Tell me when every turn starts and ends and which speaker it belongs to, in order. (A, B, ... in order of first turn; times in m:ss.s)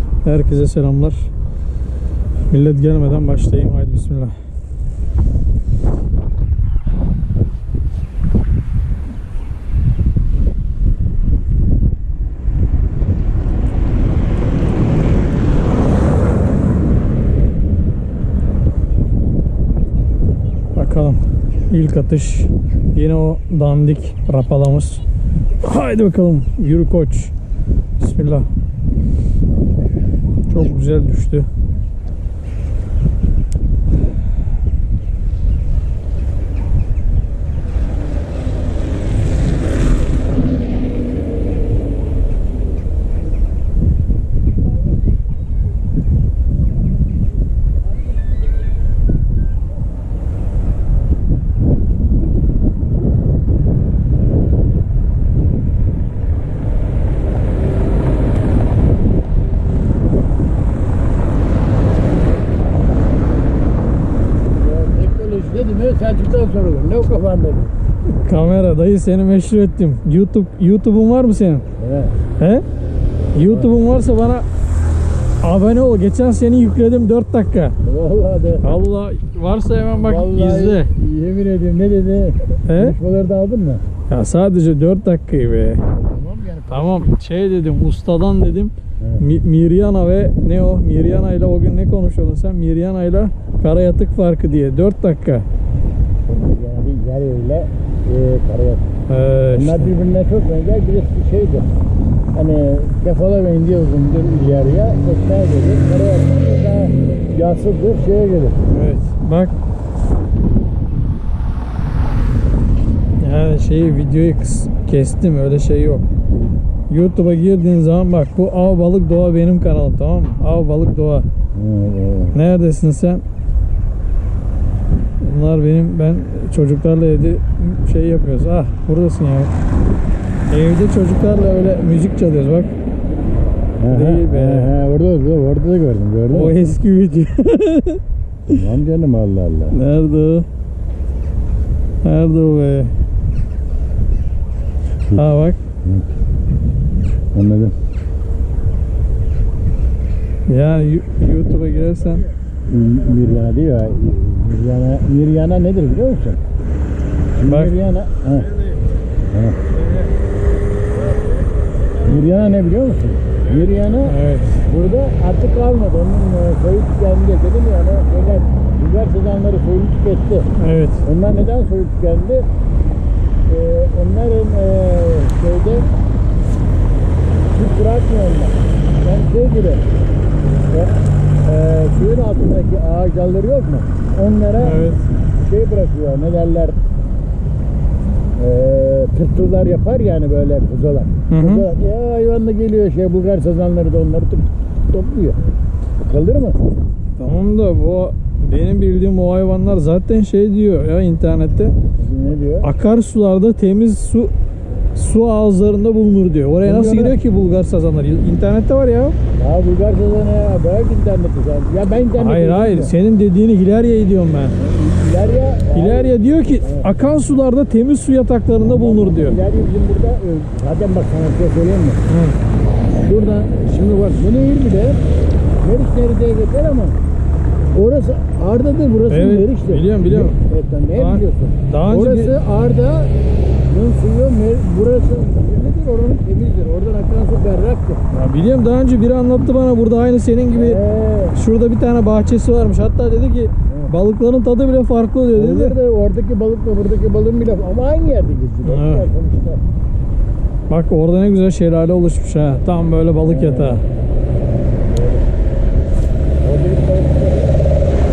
0:00.2-0:01.3 A
0:02.5-0:04.4 A
0:20.8-0:25.0 A
0:25.6-0:27.3 A
0:28.0-0:28.5 A
0:30.5-0:31.5 A
1:04.6-1:07.7 B
1:08.1-1:11.6 A
1:11.8-1:12.1 B
1:12.4-1:12.6 A
1:13.3-1:14.4 A
1:13.4-1:13.7 B
1:15.4-1:17.8 A
1:17.8-1:18.6 B
1:18.6-1:20.9 A
1:19.9-1:23.8 B
1:22.6-1:23.0 A
1:24.1-1:25.8 A
1:25.9-1:27.1 B
1:26.7-1:35.4 A
1:36.3-1:38.9 B
1:39.1-1:39.9 A
1:39.5-1:41.7 B
1:42.3-1:48.6 B
1:48.7-1:49.5 A
1:53.2-1:56.0 A
1:56.9-2:01.3 A
2:01.5-2:02.4 B
2:02.3-2:03.2 A
2:05.2-2:09.5 A
2:10.5-2:12.7 A
2:13.8-2:16.7 B
2:13.9-2:14.7 A
2:16.3-2:18.0 A
2:18.5-2:19.8 B
2:19.7-2:20.5 A
2:22.0-2:22.9 A
2:25.1-2:25.6 A
2:27.3-2:27.7 B
2:30.5-2:32.3 A
2:32.7-2:36.4 B
2:37.4-2:38.5 B
2:37.4-2:37.7 A
2:39.3-2:39.6 B
2:42.0-2:50.5 B
2:44.0-2:44.6 A
2:50.6-2:51.0 A
2:51.0-2:52.4 B
2:53.5-2:55.9 B
2:57.5-2:59.8 B
3:01.4-3:04.9 B
3:04.6-3:05.0 A
3:05.4-3:06.8 B
3:08.4-3:15.4 B
3:11.3-3:11.7 A
3:16.0-3:16.6 B
3:17.2-3:21.7 A
3:22.0-3:22.7 B
3:22.6-3:24.3 A
3:24.9-3:29.2 A
3:26.6-3:27.2 B
3:29.3-3:32.9 B
3:32.2-3:34.6 A
3:34.6-3:36.9 B
3:35.7-3:39.4 A
3:38.6-3:42.0 B
3:42.1-3:42.4 A
3:42.9-3:45.0 B
3:45.6-3:47.0 B
3:47.7-3:53.1 B
3:49.1-3:50.4 A
3:50.9-3:52.3 A
3:53.7-3:58.0 B
3:58.1-4:00.8 A
4:00.5-4:01.4 B
4:01.3-4:05.8 A
4:05.3-4:09.6 B
4:08.6-4:09.1 A
4:10.7-4:13.8 A
4:13.2-4:13.8 B
4:14.9-4:15.2 B
4:16.4-4:17.6 B